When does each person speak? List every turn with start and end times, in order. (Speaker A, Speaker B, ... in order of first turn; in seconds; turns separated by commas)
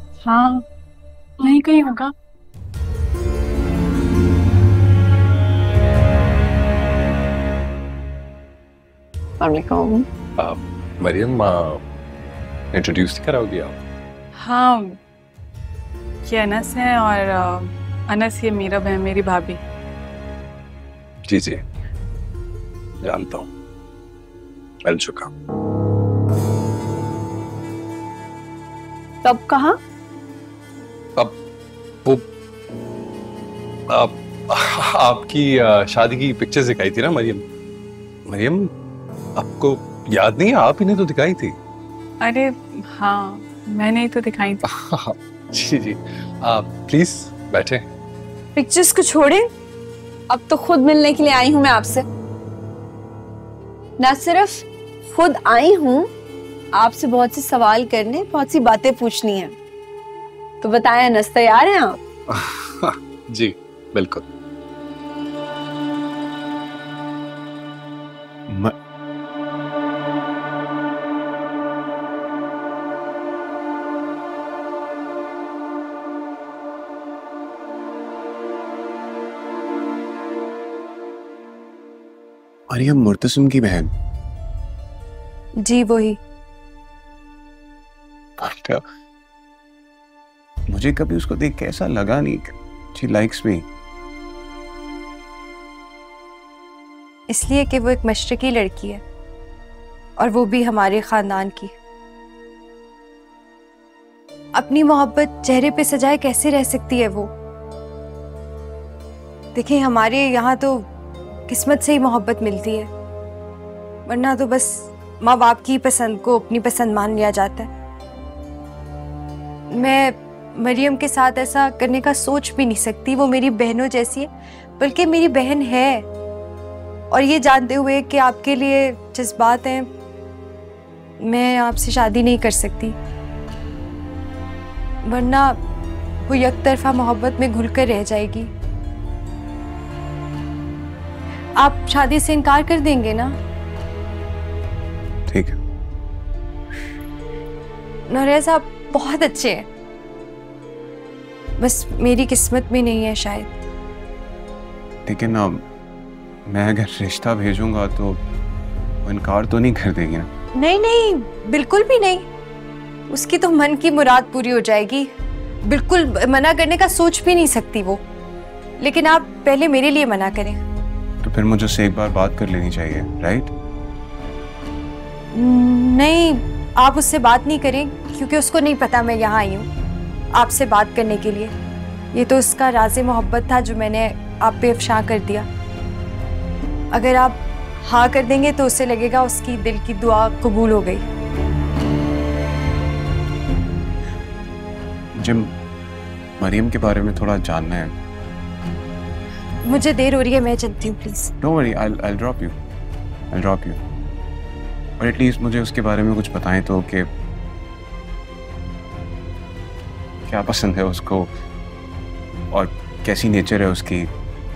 Speaker A: 0.2-0.6, Speaker A: 1.4-2.1, Speaker B: 9.5-10.0, Speaker C: 10.4-11.8, Speaker C: 12.7-13.8, Speaker A: 14.3-15.0, Speaker A: 16.2-19.6, Speaker C: 21.2-21.6, Speaker C: 23.0-23.5, Speaker C: 24.8-25.3, Speaker B: 29.2-29.7, Speaker C: 33.9-37.4, Speaker C: 38.2-38.7, Speaker C: 39.4-41.6, Speaker A: 42.2-44.6, Speaker C: 44.6-47.9, Speaker D: 48.5-49.5, Speaker B: 50.3-52.0, Speaker B: 54.0-56.0, Speaker B: 56.8-59.5, Speaker B: 60.6-62.0, Speaker C: 62.3-64.2, Speaker E: 68.5-68.7, Speaker E: 82.7-83.9, Speaker D: 85.6-86.2, Speaker E: 88.4-88.8, Speaker E: 90.7-93.6, Speaker D: 97.3-99.0, Speaker D: 100.2-101.7, Speaker D: 104.5-107.3, Speaker D: 109.5-110.9, Speaker D: 111.5-112.9, Speaker D: 114.0-117.7, Speaker D: 119.7-126.0, Speaker D: 127.1-129.9, Speaker D: 131.2-133.0, Speaker D: 135.1-135.6, Speaker D: 136.2-138.5, Speaker D: 141.6-143.3, Speaker E: 145.3-145.6, Speaker D: 148.1-149.6, Speaker D: 151.6-153.5, Speaker E: 155.1-155.6, Speaker E: 156.5-158.2, Speaker E: 159.0-160.3, Speaker D: 160.6-162.3, Speaker D: 163.1-165.1, Speaker D: 165.7-168.0, Speaker D: 168.8-170.6, Speaker E: 171.2-173.5, Speaker D: 175.3-179.7, Speaker D: 180.3-181.5, Speaker D: 182.1-185.5, Speaker D: 186.9-191.0, Speaker E: 195.2-195.5, Speaker E: 196.4-197.9, Speaker D: 199.6-201.3, Speaker E: 201.4-202.6, Speaker E: 203.3-203.8, Speaker E: 205.0-207.1, Speaker E: 210.2-211.3, Speaker E: 212.5-214.1